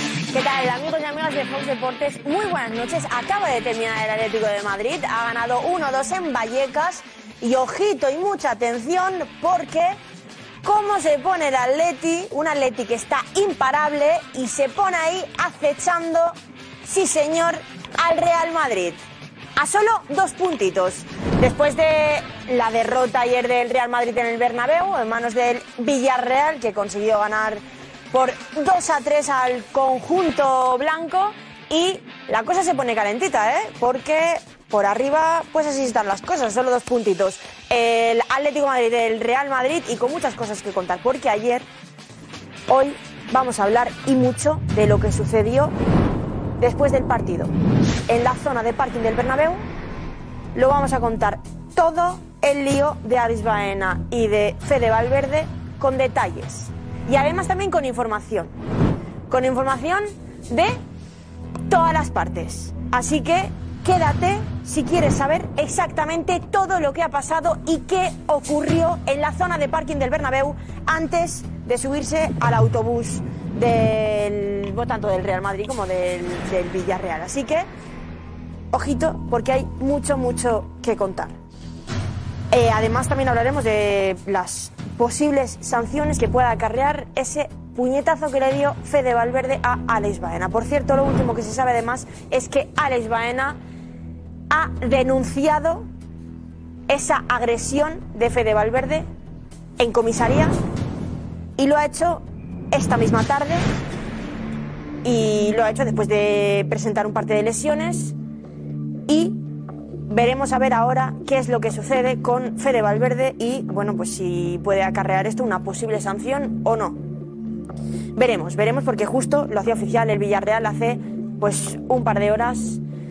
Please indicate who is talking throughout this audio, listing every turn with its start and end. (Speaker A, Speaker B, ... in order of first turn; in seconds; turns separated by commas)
Speaker A: 0.3-10.0, Speaker A: 10.6-19.0, Speaker A: 19.6-41.6, Speaker A: 42.7-45.7, Speaker A: 46.6-47.5, Speaker A: 48.1-49.6, Speaker A: 50.5-58.5, Speaker A: 59.3-60.8, Speaker A: 61.7-77.7, Speaker A: 78.7-81.3, Speaker A: 82.5-93.6, Speaker A: 94.5-95.9, Speaker A: 96.9-99.1, Speaker A: 99.8-100.6, Speaker A: 101.6-103.7, Speaker A: 105.0-108.2, Speaker A: 109.1-109.4, Speaker A: 110.1-117.0, Speaker A: 118.2-122.8